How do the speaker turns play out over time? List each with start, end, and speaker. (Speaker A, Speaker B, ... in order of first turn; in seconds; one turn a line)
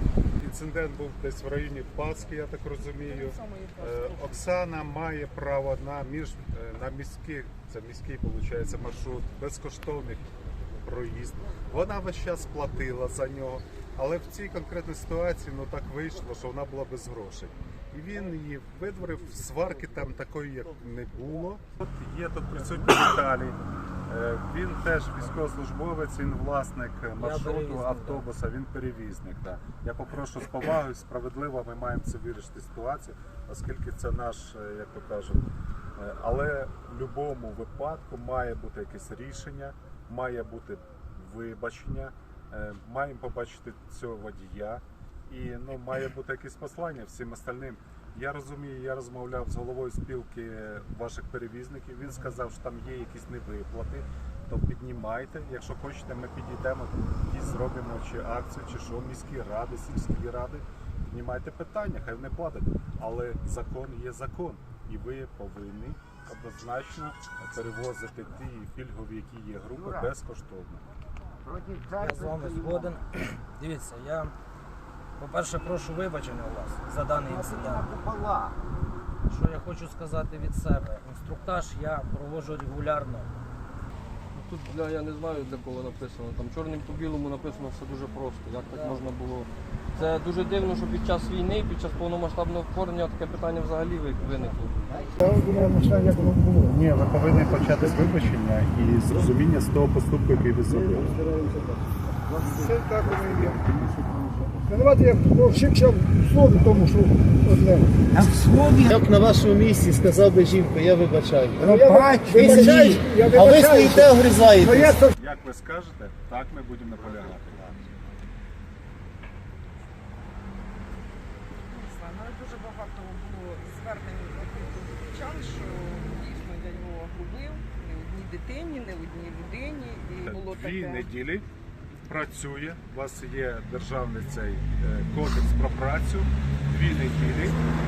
Speaker A: 0.4-35.4
Speaker B: 3.0-4.6
Speaker C: 27.1-28.3
Speaker A: 36.0-70.8
Speaker D: 69.8-70.1
Speaker D: 71.4-72.9
Speaker C: 72.0-74.3
Speaker C: 75.2-77.9
Speaker D: 77.2-78.6
Speaker C: 79.3-83.3
Speaker E: 84.3-94.8
Speaker C: 88.7-89.1
Speaker D: 94.8-95.9
Speaker F: 95.2-96.6
Speaker A: 95.9-101.1
Speaker D: 102.3-104.6
Speaker F: 102.6-103.6
Speaker F: 104.7-107.9
Speaker D: 108.2-115.0
Speaker F: 111.6-114.1
Speaker F: 114.7-115.0
Speaker A: 115.1-117.7
Speaker D: 117.1-117.9
Speaker B: 121.6-131.0
Speaker A: 130.2-131.4
Speaker A: 132.0-137.7